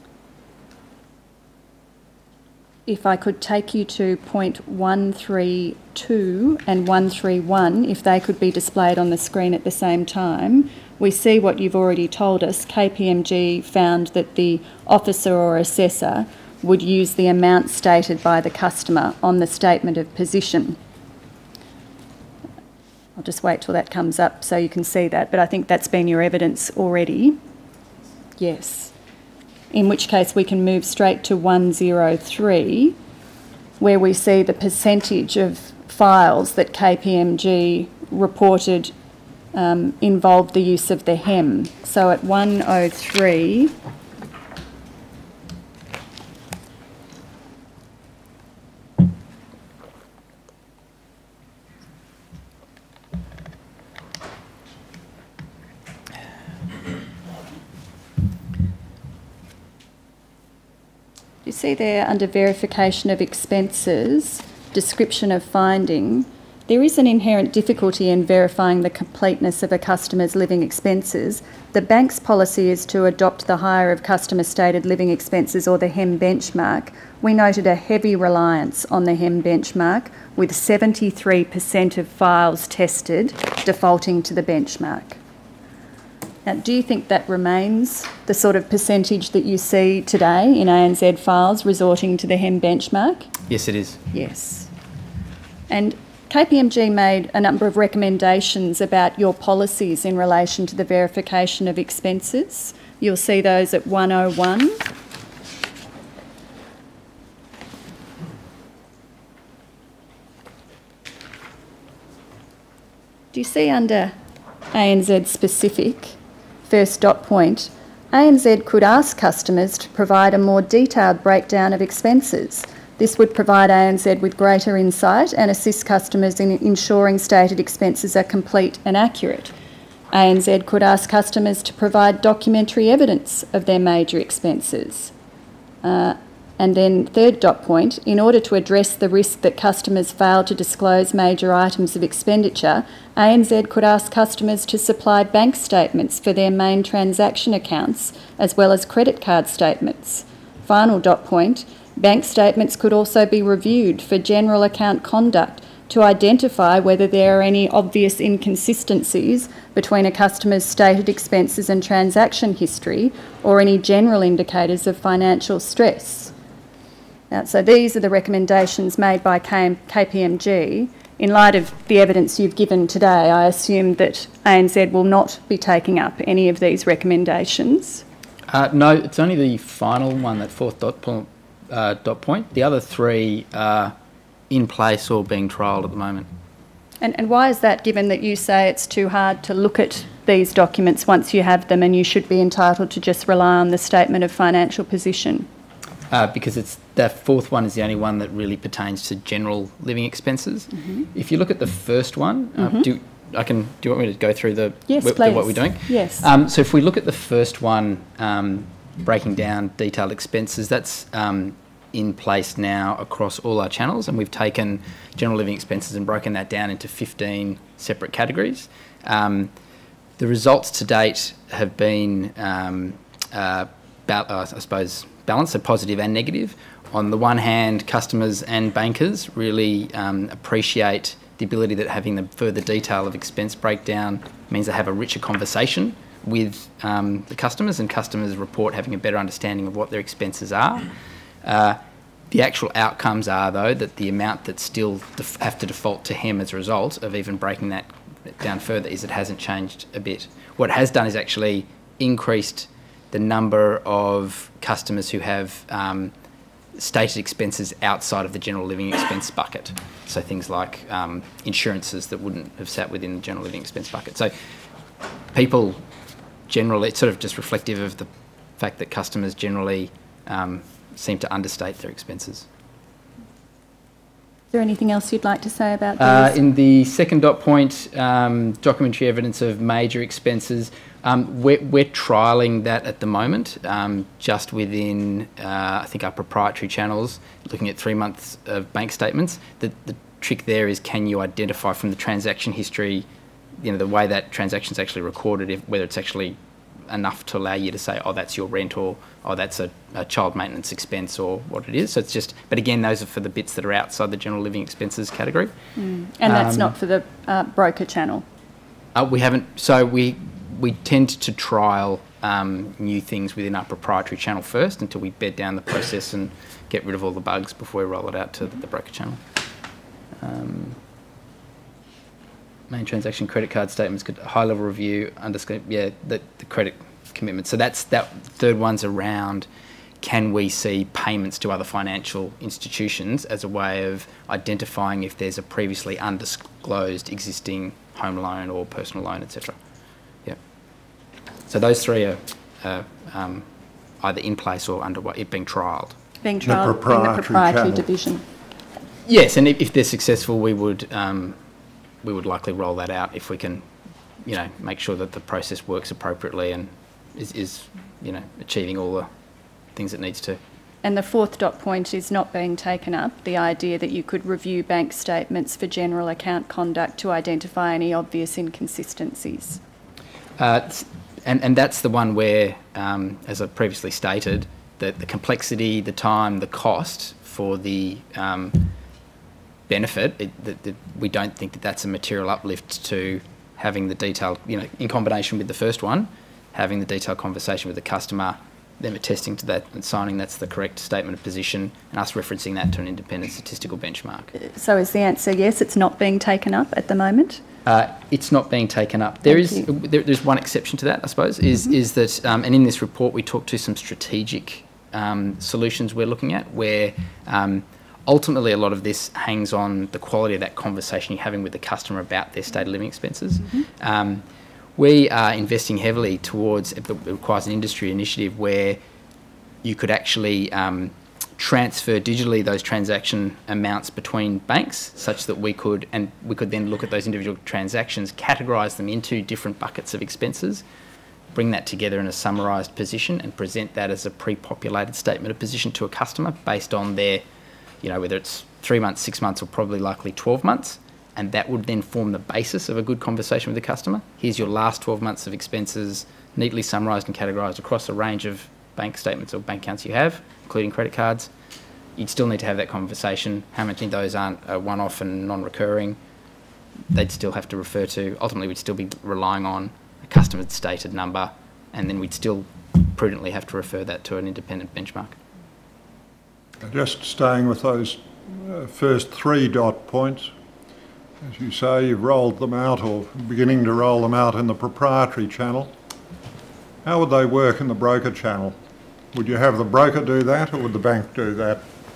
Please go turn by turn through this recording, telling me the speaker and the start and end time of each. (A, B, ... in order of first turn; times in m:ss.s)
0:02.9-0:20.8 A
0:23.2-0:27.4 A
0:28.4-0:28.9 A
0:29.7-0:33.0 A
0:33.8-0:38.9 A
0:39.5-0:43.7 A
1:01.4-1:25.2 A
1:26.4-1:33.3 A
1:33.5-1:34.0 B
1:34.1-1:34.7 A
1:35.7-1:44.8 A
1:53.3-1:54.1 A
1:54.7-1:56.2 A
1:56.7-2:09.5 A
2:10.1-2:15.1 A
2:15.8-2:46.3 A
2:47.3-2:58.0 A
2:58.5-3:04.0 B
3:04.5-3:06.3 B
3:07.0-3:15.5 A
3:16.1-3:39.5 B
3:22.6-3:22.8 A
3:24.9-3:26.2 A
3:40.2-4:00.9 B
4:01.4-4:01.8 B
4:02.3-4:16.1 B
4:16.8-4:24.3 B
4:25.3-4:25.8 B
4:26.5-4:32.5 B
4:34.5-4:36.4 A
4:36.0-4:53.1 B
4:53.6-4:56.4 B
4:56.9-5:05.5 B
5:05.8-5:08.2 A
5:06.3-5:06.8 B
5:09.0-5:19.2 B
5:20.2-5:20.8 B
5:22.7-5:29.5 B
5:30.0-5:39.6 B
5:41.5-5:43.5 B
5:44.0-5:46.0 B
5:46.2-5:48.2 A
5:46.4-5:47.9 C
5:49.1-5:51.4 B
5:52.0-5:53.6 B
5:54.2-5:59.1 B
5:59.8-6:00.4 B
6:00.8-6:09.6 A
6:10.4-6:18.7 B
6:19.7-6:34.3 B
6:34.4-6:37.4 A
6:37.7-6:54.2 B
6:39.4-6:39.6 A
6:54.8-6:58.8 B
6:59.6-7:10.6 B
7:11.3-7:17.2 B
7:17.8-7:31.3 B
7:32.0-7:36.0 B
7:36.9-7:45.2 B
7:46.6-7:50.3 C
7:51.2-7:55.7 C
7:56.8-7:58.6 C
7:59.1-8:01.6 C